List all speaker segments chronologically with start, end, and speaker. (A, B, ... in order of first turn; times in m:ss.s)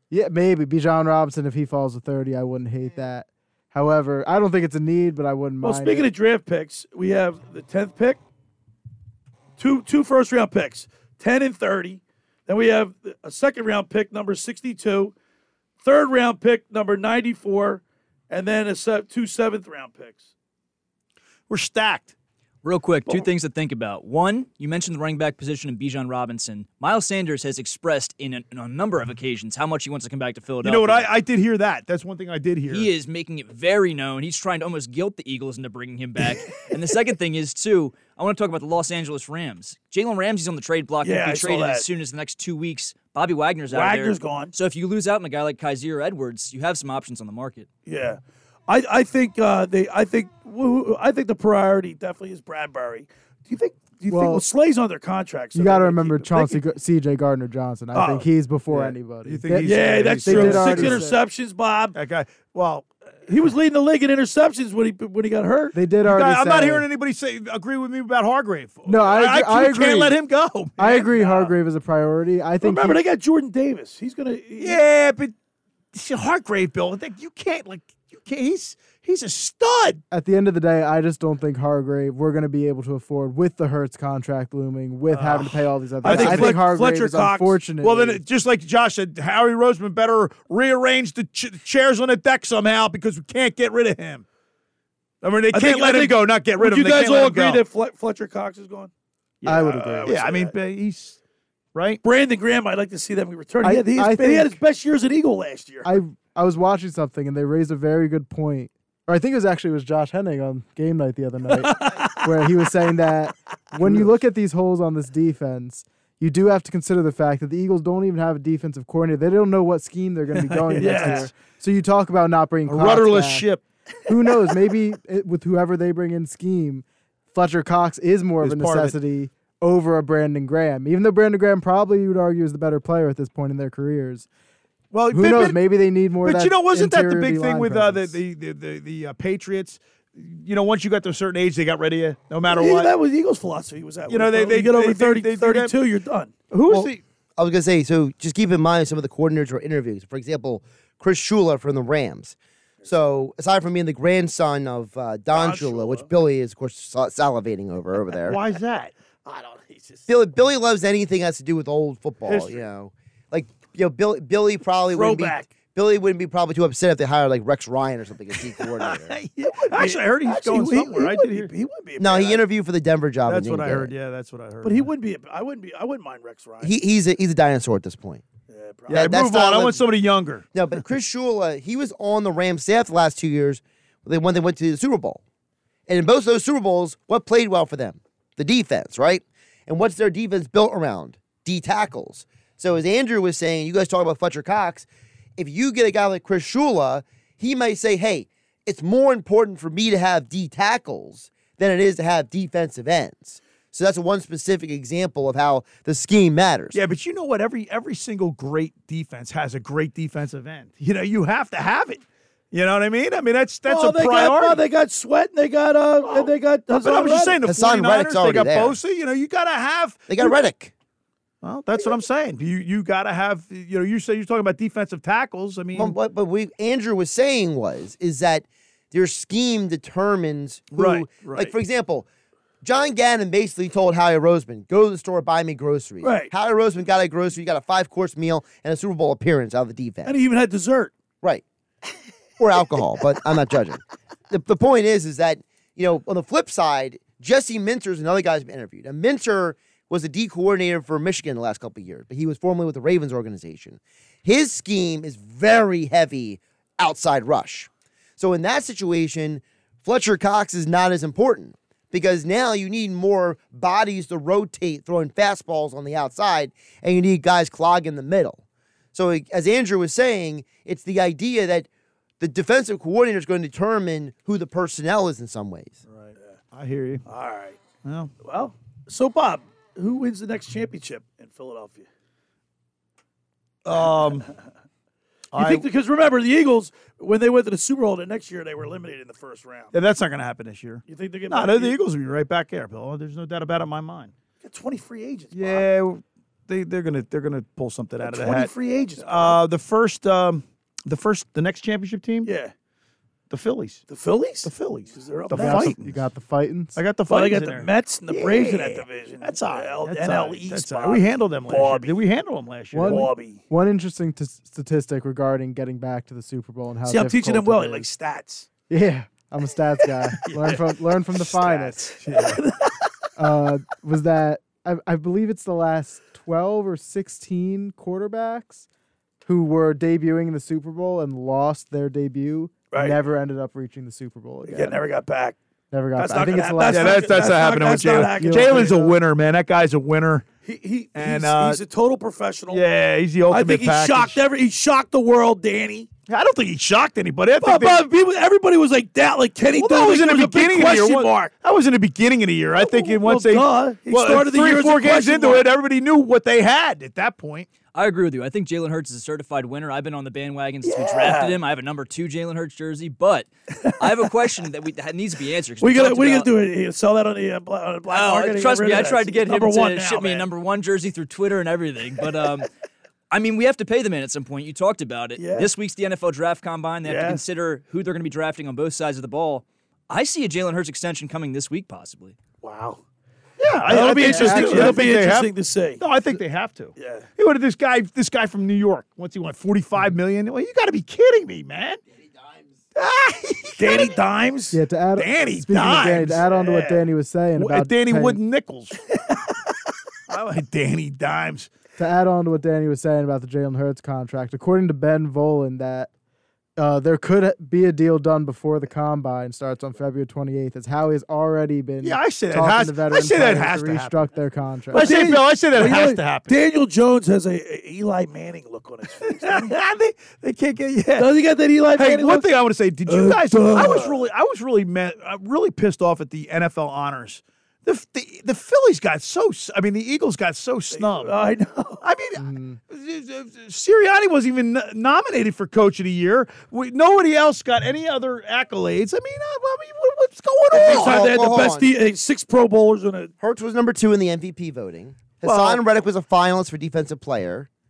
0:00.1-0:06.1 A
0:05.6-0:08.2 B
0:09.6-0:15.1 B
0:15.8-0:20.3 B
0:21.5-0:22.1 C
0:22.6-0:31.1 D
0:30.6-0:32.9 C
0:32.7-0:47.7 D
0:41.0-0:41.9 B
0:43.7-0:44.5 B
0:47.9-0:56.6 B
0:54.1-0:54.5 A
0:55.6-1:01.2 A
0:57.9-0:58.3 B
0:58.7-1:01.0 C
0:59.6-1:02.0 B
1:01.9-1:02.9 C
1:03.3-1:05.8 B
1:05.7-1:06.9 A
1:06.0-1:11.1 C
1:08.9-1:10.2 A
1:10.8-1:13.0 A
1:10.8-1:11.5 B
1:12.6-1:14.8 B
1:14.6-1:15.3 C
1:15.9-1:20.0 C
1:20.1-1:28.2 A
1:25.1-1:25.4 C
1:25.2-1:27.6 B
1:26.0-1:26.6 C
1:27.8-1:34.2 C
1:35.2-1:37.6 C
1:35.5-1:38.9 B
1:39.4-1:41.2 C
1:39.4-1:40.2 A
1:39.5-1:40.5 B
1:41.7-1:42.0 C
1:42.0-1:46.0 B
1:43.6-1:44.6 A
1:45.8-2:03.5 A
1:51.5-1:52.2 B
2:00.5-2:01.3 B
2:00.8-2:01.2 C
2:02.7-2:03.6 C
2:03.0-2:03.3 E
2:04.1-2:14.3 A
2:08.4-2:09.0 C
2:14.9-2:15.6 C
2:15.1-2:18.2 A
2:16.2-2:22.9 C
2:22.5-2:26.3 B
2:24.1-2:25.7 C
2:26.5-2:27.0 C
2:26.7-2:38.4 E
2:35.3-2:36.1 B
2:38.2-2:38.9 C
2:39.2-2:40.0 B
2:40.1-2:49.2 E
2:42.3-2:42.6 B
2:44.9-2:45.5 B
2:49.4-2:52.4 B
2:49.6-2:51.5 C
2:52.0-2:53.9 E
2:53.3-2:54.9 C
2:54.6-2:56.8 B
2:56.6-2:58.2 E
2:58.5-2:59.1 B
2:58.9-2:59.8 E
2:58.9-3:00.5 C
3:00.5-3:05.2 E
3:05.9-3:14.9 E
3:15.4-3:26.8 E
3:26.7-3:34.6 C
3:33.7-3:37.4 B
3:36.8-3:40.4 C
3:37.4-3:38.8 E
3:40.1-3:40.7 E
3:41.4-3:45.9 C
3:45.7-3:52.1 E
3:50.8-3:51.5 C
3:52.6-4:00.1 E
3:56.0-3:56.3 B
4:00.0-4:00.9 B
4:02.4-4:28.4 E
4:28.9-4:31.7 E
4:32.2-4:35.8 E
4:36.0-4:37.0 C
4:37.1-4:37.6 B
4:37.8-4:38.1 C
4:38.2-4:41.9 B
4:43.6-4:44.3 C
4:45.3-4:45.7 C
4:45.4-4:49.7 B
4:49.7-4:54.1 C
4:50.9-4:51.8 B
4:54.4-4:55.7 B
4:55.3-5:02.3 C
4:58.0-4:59.4 B
5:02.2-5:02.5 B
5:03.3-5:03.8 C
5:03.9-5:05.8 B
5:04.4-5:06.0 C
5:05.3-5:06.8 A
5:06.8-5:13.1 C
5:07.1-5:12.0 B
5:12.7-5:17.9 A
5:12.8-5:13.4 B
5:16.9-5:18.5 B
5:18.7-5:21.9 A
5:20.2-5:20.6 B
5:21.4-5:22.9 B
5:22.0-5:22.4 C
5:23.2-5:28.7 A
5:29.2-5:34.8 A
5:32.7-5:33.0 B
5:34.4-5:35.4 B
5:35.7-5:37.4 A
5:36.0-5:39.0 B
5:36.7-5:40.3 C
5:38.1-5:38.8 A
5:40.4-5:42.6 B
5:41.0-5:41.6 C
5:42.5-5:44.2 C
5:43.3-5:45.9 B
5:46.1-5:47.8 C
5:47.4-5:51.3 B
5:49.5-5:57.5 C
5:52.6-5:55.5 B
5:57.7-6:03.3 D
6:00.6-6:01.4 B
6:03.8-6:06.3 D
6:05.6-6:10.3 B
6:07.9-6:12.5 D
6:13.1-6:22.2 D
6:15.2-6:15.5 B
6:16.8-6:17.2 B
6:22.4-6:22.8 B
6:23.4-6:31.8 C
6:23.7-6:25.8 B
6:23.8-6:24.9 A
6:26.8-6:27.1 B
6:32.8-6:34.0 C
6:33.6-6:34.6 B
6:34.5-6:38.2 A
6:35.0-6:36.2 C
6:36.2-6:36.9 B
6:37.4-6:38.8 C
6:40.1-6:41.5 C
6:41.8-6:45.9 A
6:46.6-6:55.0 A
6:51.8-6:54.0 C
6:54.7-6:56.4 C
6:54.7-6:59.5 B
6:59.0-7:01.1 C
7:01.0-7:02.3 B
7:01.8-7:11.1 C
7:02.9-7:04.0 B
7:10.7-7:11.8 B
7:11.8-7:21.1 C
7:12.2-7:12.6 A
7:20.5-7:21.7 E
7:20.5-7:23.1 B
7:23.2-7:27.5 E
7:25.2-7:25.6 C